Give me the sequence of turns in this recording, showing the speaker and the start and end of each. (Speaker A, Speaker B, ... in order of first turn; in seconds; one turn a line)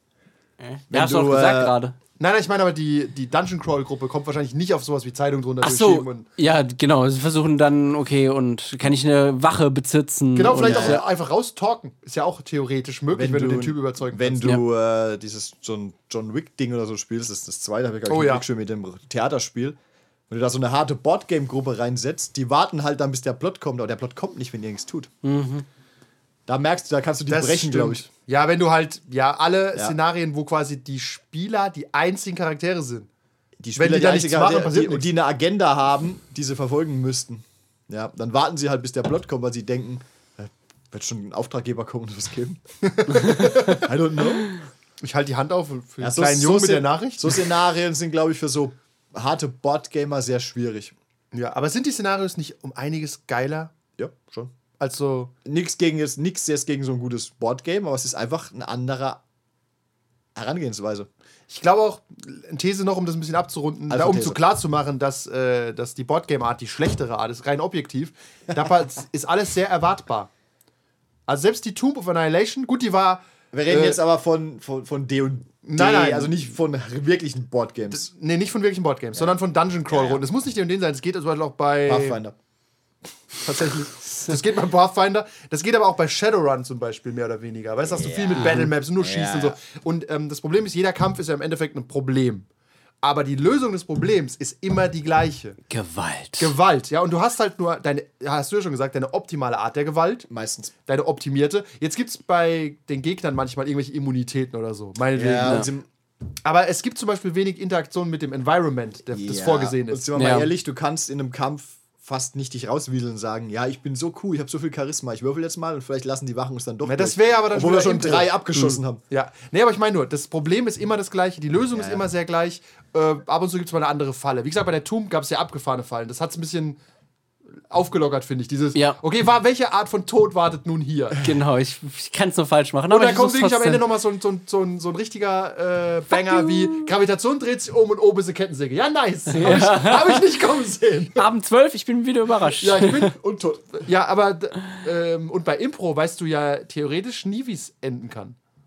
Speaker A: 0.6-1.9
Speaker B: 0.9-1.7
Speaker C: 2.2-6.2
Speaker A: 5.6-11.0
Speaker C: 10.3-14.4
Speaker B: 10.6-11.0
Speaker B: 13.1-19.8
Speaker C: 18.1-18.4
Speaker B: 20.3-25.1
Speaker A: 25.2-25.6
Speaker B: 26.5-28.0
Speaker C: 27.3-33.1
Speaker B: 33.6-42.6
Speaker C: 33.8-35.1
Speaker C: 42.8-43.8
Speaker B: 43.2-44.5
Speaker C: 45.0-47.4
Speaker B: 46.0-50.9
Speaker C: 51.3-53.7
Speaker B: 54.0-54.5
Speaker C: 54.8-55.3
Speaker B: 55.4-59.2
Speaker B: 60.3-61.1
Speaker C: 61.5-70.3
Speaker B: 63.9-64.4
Speaker C: 71.3-74.0
Speaker B: 73.5-78.1
Speaker C: 75.6-76.4
Speaker C: 77.9-82.2
Speaker B: 79.9-80.2
Speaker B: 81.8-82.4
Speaker C: 83.4-92.5
Speaker B: 87.8-89.6
Speaker A: 88.4-88.7
Speaker C: 93.0-95.6
Speaker A: 95.7-96.5
Speaker C: 96.4-100.3
Speaker B: 100.3-100.7
Speaker C: 100.9-105.7
Speaker B: 105.1-105.9
Speaker C: 106.4-110.1
Speaker B: 109.1-119.0
Speaker A: 110.2-110.5
Speaker C: 116.8-118.5
Speaker C: 119.1-126.8
Speaker B: 121.7-122.0
Speaker C: 127.7-131.2
Speaker A: 131.2-133.8
Speaker C: 132.9-141.2
Speaker A: 136.2-136.9
Speaker A: 139.3-140.2
Speaker A: 141.1-143.1
Speaker C: 142.6-143.2
Speaker B: 143.2-143.8
Speaker C: 143.8-148.3